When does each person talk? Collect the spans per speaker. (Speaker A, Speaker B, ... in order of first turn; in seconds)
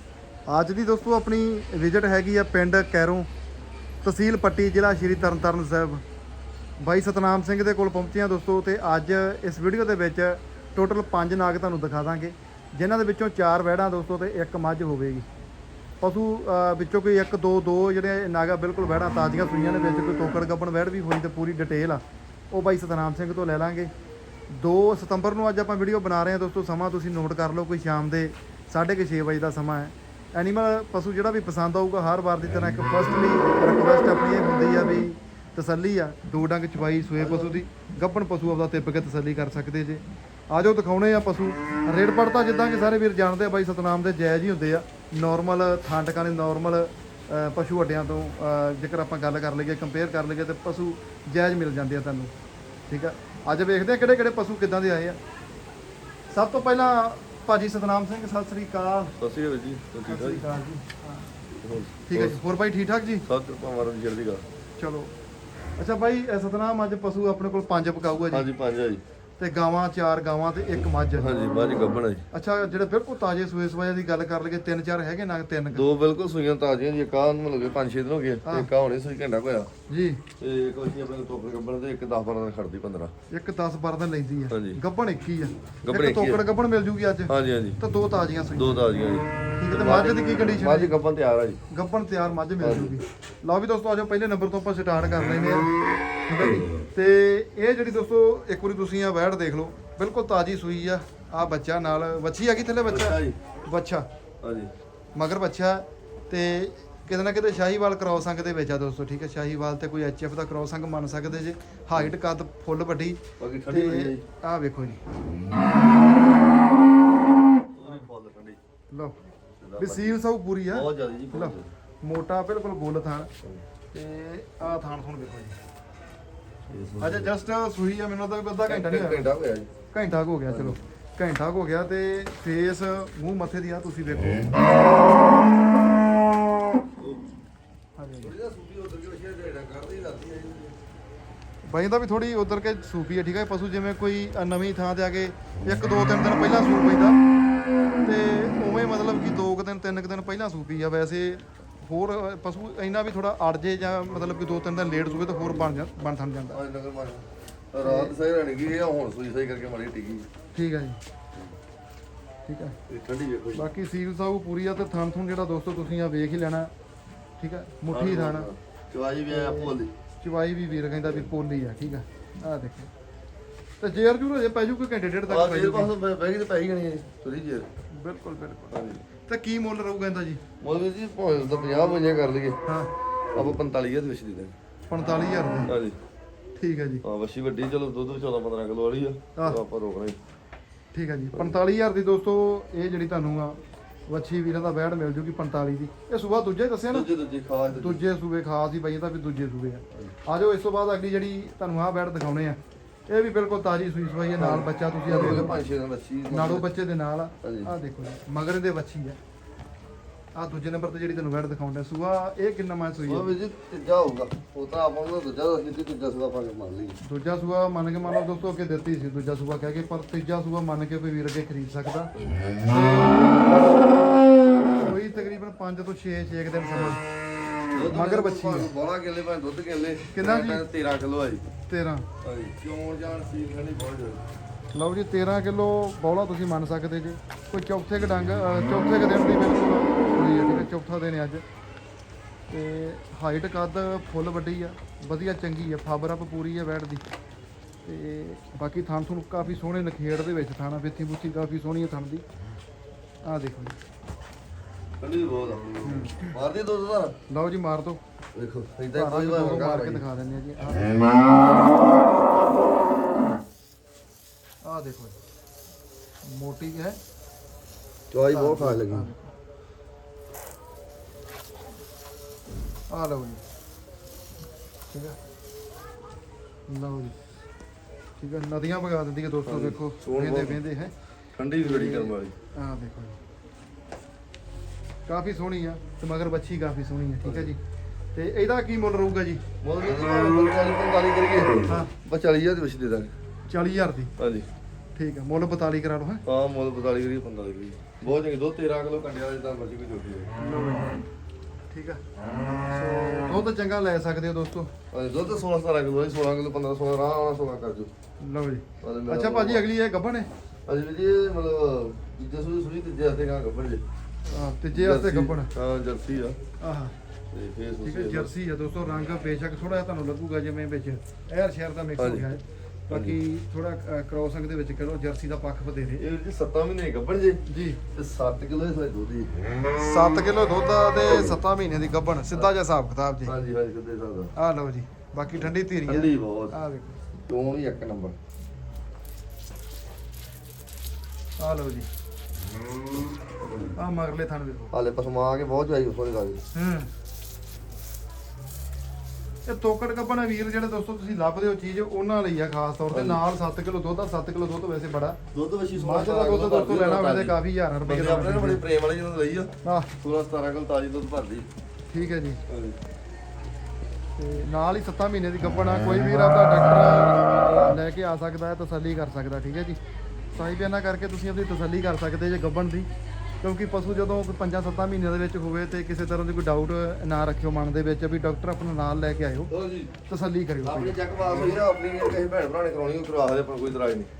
Speaker A: 0.5-3.3, 4.0-6.0, 6.8-15.3, 16.0-23.9, 24.5-52.3, 52.9-55.2, 56.3-59.1, 60.1-61.3, 62.1-63.2, 64.8-65.1, 65.8-68.5, 69.4-71.3, 72.3-75.8, 79.9-80.2, 83.3-88.8, 89.6-91.0, 91.7-95.7, 96.3-104.1, 105.2-115.0, 115.6-116.2, 119.8-123.3, 123.9-125.6, 127.0-129.3, 129.9-134.7, 138.0-138.3, 141.7-147.2, 148.0-156.6, 157.8-158.2, 160.5-161.0, 162.5-162.8, 163.5-166.7, 167.4-168.5, 169.3-172.9, 173.8-175.9, 178.0-180.4, 184.9-185.7, 186.6-187.0, 190.9-197.1, 197.7-202.6, 203.1-205.6, 206.3-209.2, 210.3-213.3, 217.0-222.1, 222.7-223.5, 224.7-227.0, 227.9-228.7, 230.1-230.6, 231.7-232.1, 234.7-241.4, 242.5-247.0, 247.8-252.2, 253.2-253.8, 255.8-256.4, 257.3-258.0, 258.9-261.2, 264.6-265.2, 266.2-267.0, 268.3-269.3, 272.9-273.4, 274.9-275.2, 276.7-277.2, 278.2-280.9, 281.6-283.2, 285.1-287.6, 288.1-289.4, 291.7-291.9, 293.5-294.1, 295.0-296.2, 300.4-301.0, 301.7-302.0, 302.7-304.7, 308.2-310.3, 314.3-315.5, 316.6-316.9, 317.8-326.0, 327.5-327.8, 329.8-333.3, 334.4-337.0, 341.4-341.9, 343.8-344.7, 346.5-346.9, 349.5-355.2, 355.8-358.6, 359.6-359.9, 361.9-362.4, 364.2-369.8, 370.4-372.9, 373.4-379.5, 380.1-381.0
Speaker B: 37.2-37.5, 59.2-60.4, 61.5-62.4, 63.3-64.4, 68.3-69.0, 71.2-72.2, 75.7-79.7, 80.4-83.1, 84.5-84.8, 85.8-86.4, 87.3-87.8, 88.5-91.6, 92.6-93.0, 102.9-103.4, 104.4-104.7, 113.4-114.2, 117.8-118.6, 119.6-120.2, 120.7-121.7, 126.7-127.3, 128.7-129.7, 130.5-130.8, 137.0-137.2, 138.2-140.8, 156.5-160.3, 162.9-163.6, 167.9-169.9, 175.3-177.7, 178.7-179.0, 180.6-182.6, 183.3-184.5, 185.7-186.0, 187.0-190.2, 196.9-198.0, 204.4-206.7, 207.4-207.7, 213.1-217.0, 227.7-231.4, 232.2-234.2, 255.0-257.1, 258.4-260.0, 268.1-269.1, 279.5-280.6, 281.4-282.3, 289.6-293.1, 294.2-294.5, 296.3-300.3, 304.9-307.9, 308.8-309.6, 310.7-313.8, 314.7-316.4, 317.3-318.3, 322.0-322.2, 322.9-323.2, 326.0-327.4, 327.9-329.3, 333.2-334.3, 335.9-336.6, 337.3-338.2, 344.7-346.4, 352.9-353.2, 355.3-361.5, 362.5-362.8, 379.5-379.9, 380.6-384.1